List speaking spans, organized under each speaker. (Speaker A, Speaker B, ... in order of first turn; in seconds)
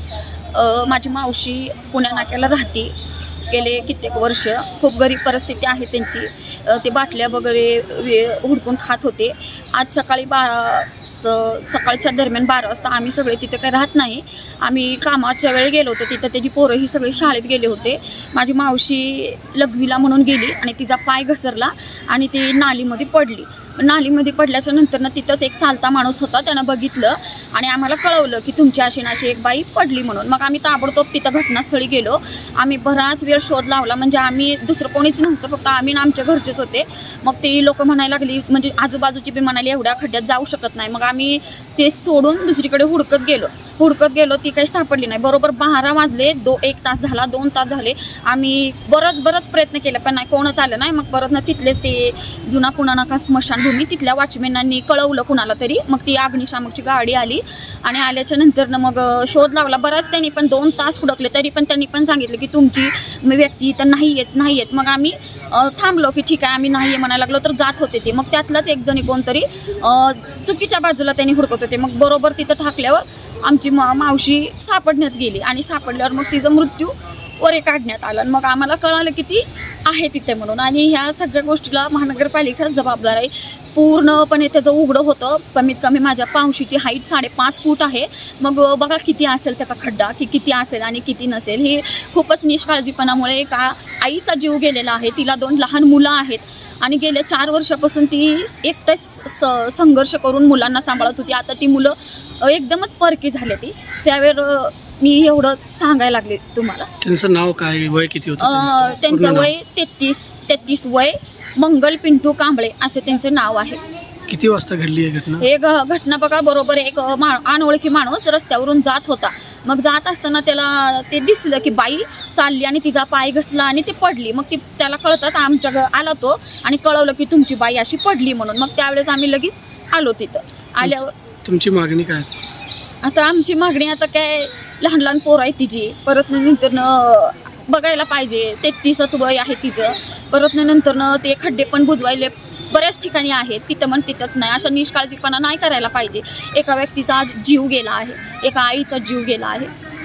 Speaker A: 0.5-2.9, 3.5-106.9, 108.4-113.8, 115.4-131.1, 133.0-149.7
Speaker B: 107.0-109.5, 114.3-115.5, 130.8-132.3